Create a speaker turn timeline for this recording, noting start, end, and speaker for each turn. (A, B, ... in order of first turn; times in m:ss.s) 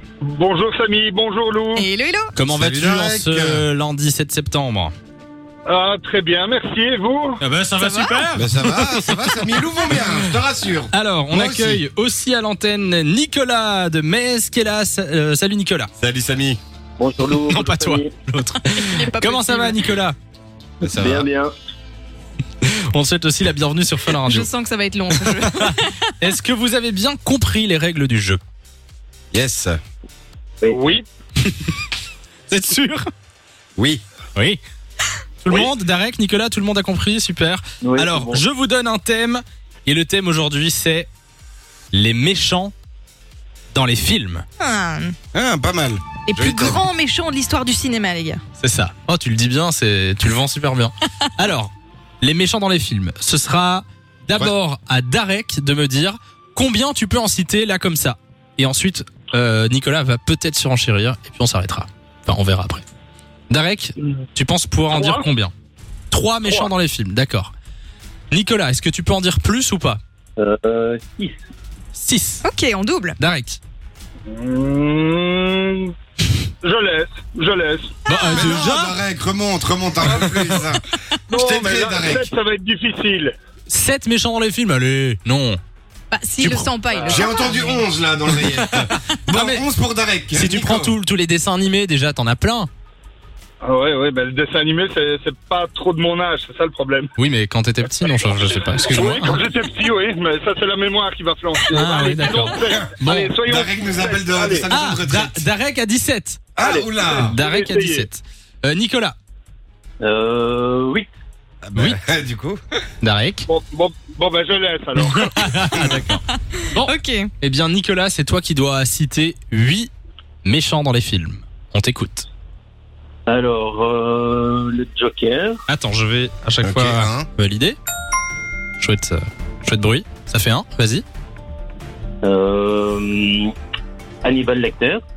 0:00.2-0:01.9 A
0:01.8-0:02.4 B
0:02.4-0:04.9 C
0:02.5-0:03.6 D
0:05.7-0:07.4 A
0:07.4-0:10.4 C
0:07.9-0:08.3 B
0:08.3-0:11.8 D
0:10.9-0:15.9 C
0:16.0-0:16.6 D
0:17.0-0:18.1 E
0:17.4-0:20.2 C
0:18.6-0:19.9 B
0:20.8-0:21.5 E
0:20.8-0:21.3 D
0:22.6-0:24.5 C
0:24.2-0:26.1 B
0:25.2-0:28.4 C
0:29.3-0:29.8 D
0:30.7-0:31.1 A
0:31.4-0:31.7 C
0:32.5-0:33.1 C
0:33.8-0:34.0 D
0:34.4-0:34.6 C
0:35.4-0:41.1 C
0:37.8-0:38.4 E
0:41.9-0:42.7 C
0:43.7-0:44.4 C
0:44.6-0:45.2 B
0:45.3-0:46.9 D
0:46.3-0:48.4 B
0:48.6-1:02.8 C
1:03.5-1:05.5 C
1:04.9-1:05.2 A
1:06.1-1:07.5 C
1:08.3-1:10.0 C
1:10.4-1:11.3 E
1:11.9-1:12.4 C
1:12.4-1:13.2 B
1:13.2-1:13.6 C
1:14.3-1:15.9 A
1:16.6-1:18.0 A
1:18.1-1:18.6 B
1:18.1-1:19.0 C
1:18.3-1:22.3 D
1:20.2-1:20.6 C
1:21.3-1:23.4 A
1:23.7-1:25.6 C
1:26.1-1:27.8 B
1:26.4-1:26.7 C
1:26.9-1:27.3 A
1:27.1-1:31.0 D
1:28.3-1:29.7 C
1:30.3-1:32.7 C
1:33.6-1:37.1 A
1:37.2-1:39.4 C
1:38.8-1:44.7 A
1:41.7-1:43.3 C
1:42.7-1:45.5 D
1:44.7-1:46.4 C
1:46.6-1:47.4 D
1:46.6-1:48.1 A
1:47.2-1:49.2 C
1:50.0-1:51.1 E
1:51.6-1:52.8 D
1:53.0-1:53.5 C
1:53.5-1:55.7 A
1:55.0-1:59.9 C
1:56.8-1:57.3 B
2:00.4-2:02.3 C
2:03.3-2:05.6 E
2:05.7-2:07.8 C
2:06.6-2:07.3 D
2:08.8-2:11.0 C
2:12.2-2:13.5 E
2:14.2-2:15.0 E